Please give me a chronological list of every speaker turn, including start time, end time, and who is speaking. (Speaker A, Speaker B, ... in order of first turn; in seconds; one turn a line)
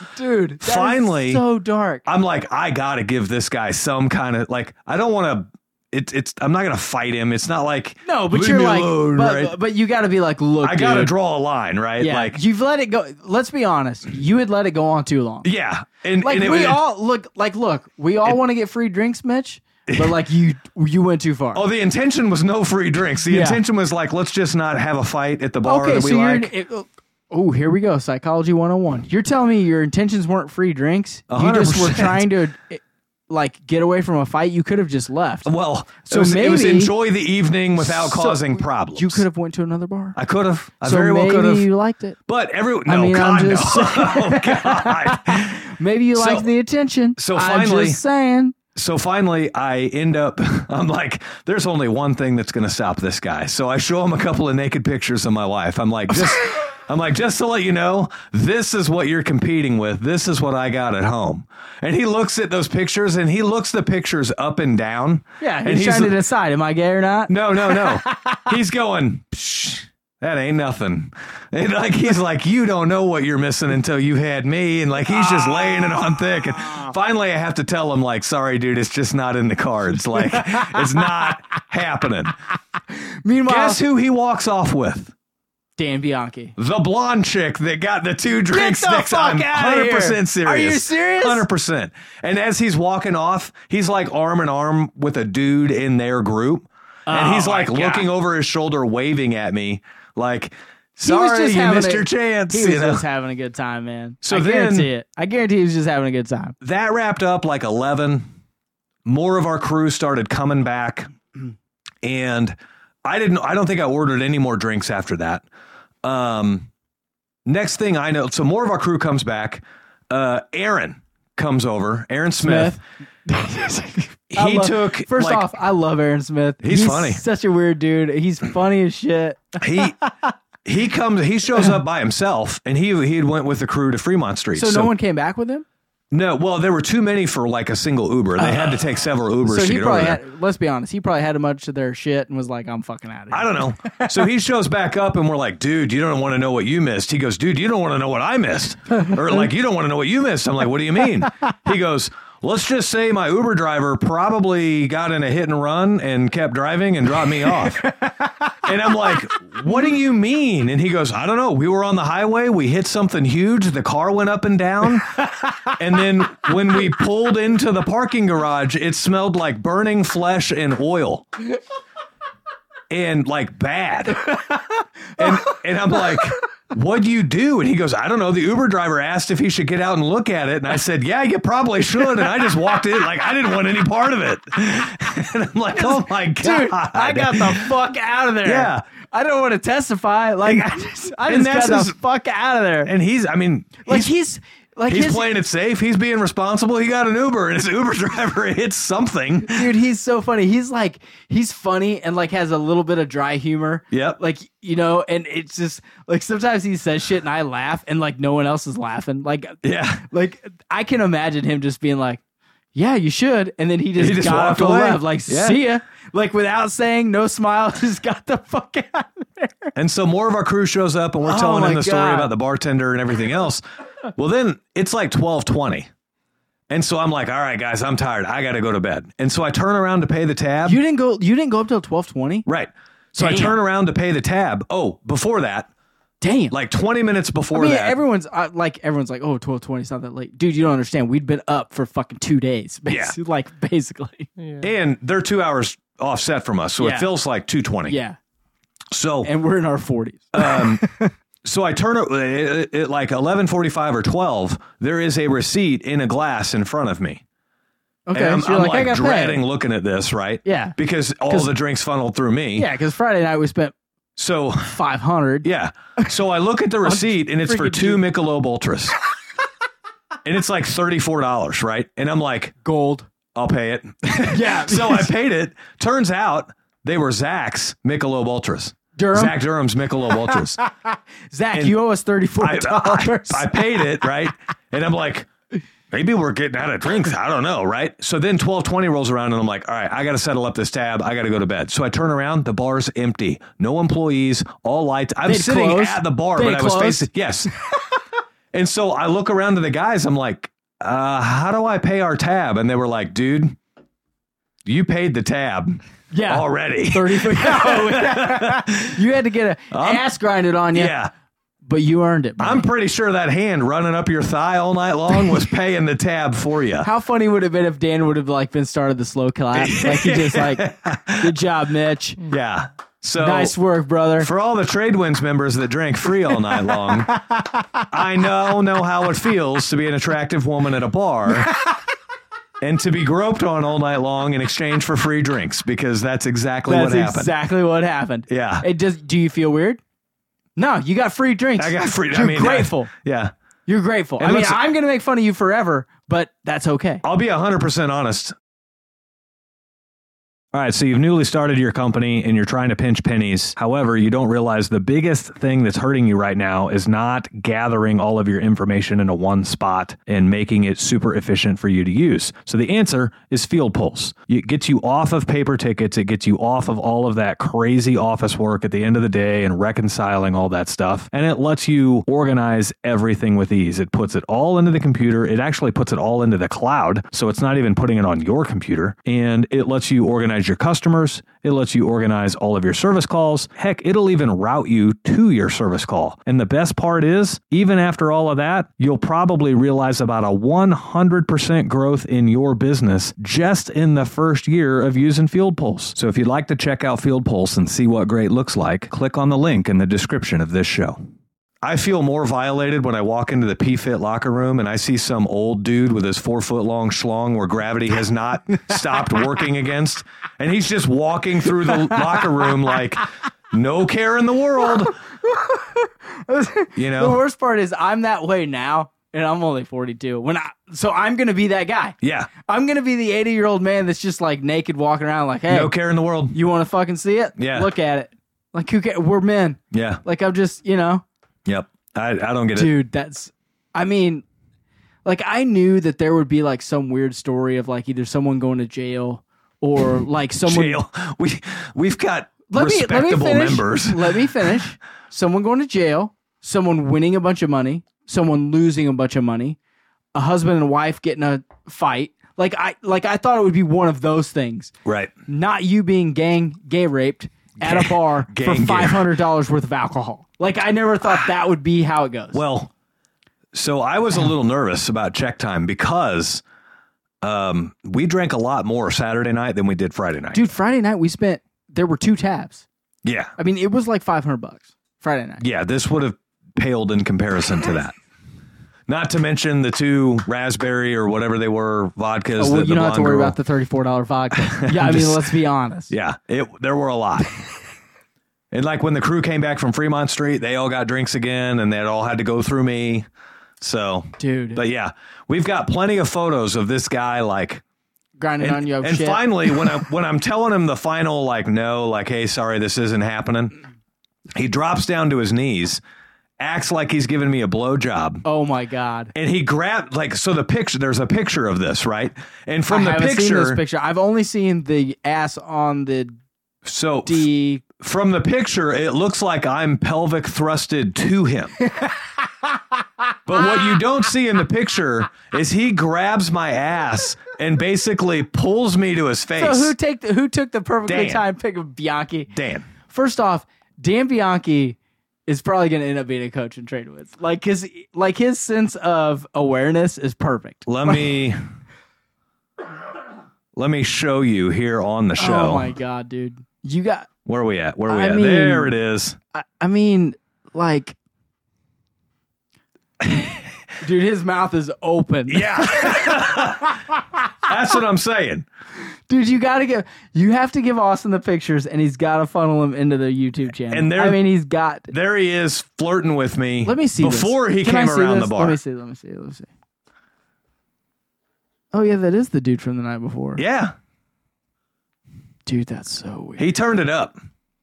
Speaker A: 0.1-2.0
Speaker B: 0.6-1.4
Speaker B: 2.0-9.5
Speaker A: 8.0-11.1
Speaker B: 10.6-12.4
Speaker A: 12.0-15.5
Speaker B: 15.4-16.8
Speaker A: 16.2-21.6
Speaker B: 19.9-20.1
Speaker B: 21.5-26.5
Speaker A: 23.3-23.6
Speaker A: 25.6-35.5
Speaker B: 31.3-32.2
Speaker B: 35.5-39.2
Speaker A: 36.0-36.9
Speaker A: 37.8-40.2
Speaker B: 40.1-41.7
Speaker A: 40.8-42.2
Speaker B: 42.3-46.5
Speaker A: 42.9-48.5
Speaker B: 47.2-48.0
Speaker B: 48.7-66.2
Speaker A: 65.4-68.5
Speaker B: 67.3-82.3
Speaker A: 75.1-76.9
Speaker A: 80.1-81.3
Speaker A: 82.9-83.8
Speaker B: 83.5-85.1
Speaker A: 85.8-86.5
Speaker B: 86.6-103.0
Speaker A: 88.4-91.5
Speaker A: 97.1-98.1
Speaker A: 101.0-106.5
Speaker B: 104.2-104.9
Speaker B: 106.6-108.3
Speaker B: 109.0-111.1
Speaker B: 112.0-115.4
Speaker B: 116.0-116.7
Speaker B: 117.5-122.8
Speaker A: 122.4-130.3
Speaker B: 124.3-125.5
Speaker B: 126.6-127.2
Speaker B: 129.6-130.0
Speaker B: 130.6-134.9
Speaker A: 134.5-135.6
Speaker B: 136.1-140.2
Speaker A: 138.4-138.8
Speaker A: 139.4-144.2
Speaker B: 143.3-157.9
Speaker A: 157.8-158.3
Speaker B: 158.6-171.3
Speaker A: 165.4-165.7
Speaker B: 172.9-174.3
Speaker A: 174.3-175.5
Speaker B: 175.2-187.7
Speaker A: 185.8-192.9
Speaker B: 188.4-188.8
Speaker B: 191.2-192.0
Speaker B: 192.8-194.1
Speaker A: 193.8-195.3
Speaker B: 194.9-199.7
Speaker A: 199.4-212.2
Speaker B: 203.9-204.2
Speaker B: 209.6-210.0
Speaker A: 212.7-219.7
Speaker B: 214.0-215.6
Speaker B: 219.7-225.9
Speaker A: 221.2-222.3
Speaker B: 226.7-230.8
Speaker A: 230.6-232.4
Speaker B: 232.4-235.7
Speaker A: 233.2-233.6
Speaker A: 236.2-236.5
Speaker B: 236.5-238.0
Speaker A: 237.5-244.3
Speaker B: 242.9-243.2
Speaker B: 244.6-248.0
Speaker A: 246.8-247.1
Speaker A: 247.8-248.2
Speaker B: 248.9-249.3
Speaker A: 249.2-251.1
Speaker B: 250.3-250.8
Speaker B: 251.4-257.2
Speaker A: 258.1-259.4
Speaker B: 258.1-262.7
Speaker A: 260.4-260.8
Speaker A: 262.6-263.7
Speaker B: 264.1-264.8
Speaker A: 264.6-265.5
Speaker B: 265.4-268.9
Speaker A: 266.8-268.0
Speaker B: 270.2-272.5
Speaker A: 272.6-273.1
Speaker B: 273.3-280.6
Speaker A: 274.3-275.1
Speaker A: 278.9-279.4
Speaker A: 280.2-284.0
Speaker B: 281.5-281.8
Speaker B: 282.4-285.3
Speaker B: 285.9-297.5
Speaker A: 295.2-297.1
Speaker B: 298.5-303.6
Speaker B: 304.6-309.0
Speaker A: 306.1-310.9
Speaker B: 309.7-310.0
Speaker B: 310.7-311.1
Speaker A: 311.6-312.7
Speaker B: 312.4-316.9
Speaker A: 316.8-322.2
Speaker B: 319.5-321.3
Speaker B: 322.2-323.5
Speaker A: 323.2-324.3
Speaker B: 324.2-327.2
Speaker A: 327.3-327.8
Speaker B: 327.9-331.5
Speaker B: 332.6-337.3
Speaker A: 336.7-339.8
Speaker B: 338.3-338.6
Speaker A: 340.6-342.9
Speaker B: 341.6-343.3
Speaker A: 343.7-347.0
Speaker B: 344.2-344.6
Speaker B: 347.0-348.4
Speaker B: 350.5-401.0
Speaker B: 401.6-414.9
Speaker A: 415.2-425.7
Speaker B: 416.7-417.2
Speaker B: 422.0-422.3
Speaker B: 425.5-426.4
Speaker A: 426.3-431.0
Speaker B: 427.4-427.7
Speaker B: 429.7-430.0
Speaker B: 431.4-432.7
Speaker A: 432.5-434.2
Speaker A: 435.0-440.8
Speaker B: 440.4-444.3
Speaker A: 442.5-449.6
Speaker A: 450.1-454.7
Speaker B: 454.8-455.1
Speaker A: 455.3-462.4
Speaker B: 457.6-459.1
Speaker B: 462.3-462.7
Speaker B: 463.5-466.4
Speaker B: 467.2-470.5
Speaker A: 470.3-472.6
Speaker B: 473.0-473.3
Speaker A: 473.4-475.4
Speaker B: 475.4-477.9
Speaker B: 478.9-483.4
Speaker A: 482.4-485.9
Speaker B: 484.4-485.2
Speaker B: 485.9-487.4
Speaker B: 488.5-493.1
Speaker B: 493.6-497.6
Speaker A: 494.2-494.6
Speaker A: 498.2-499.8
Speaker B: 498.4-503.5
Speaker B: 504.3-505.8
Speaker B: 506.4-508.2
Speaker A: 508.2-509.1
Speaker B: 509.1-513.6
Speaker A: 512.7-516.1
Speaker B: 516.6-521.5
Speaker A: 517.0-517.6
Speaker A: 521.6-522.0
Speaker B: 523.2-529.7
Speaker A: 529.4-532.3
Speaker B: 530.9-531.2
Speaker B: 532.3-532.7
Speaker A: 532.9-541.1
Speaker B: 540.6-541.4
Speaker B: 543.5-545.7
Speaker A: 545.2-547.1
Speaker B: 547.2-549.2
Speaker A: 547.9-548.7
Speaker A: 549.3-551.0
Speaker A: 553.8-556.7
Speaker B: 555.3-556.8
Speaker B: 557.4-558.5
Speaker A: 559.1-564.9
Speaker B: 563.7-564.2
Speaker B: 564.9-568.6
Speaker A: 566.6-569.5
Speaker A: 571.7-573.4
Speaker B: 573.4-573.7
Speaker A: 575.5-576.5
Speaker B: 576.4-577.1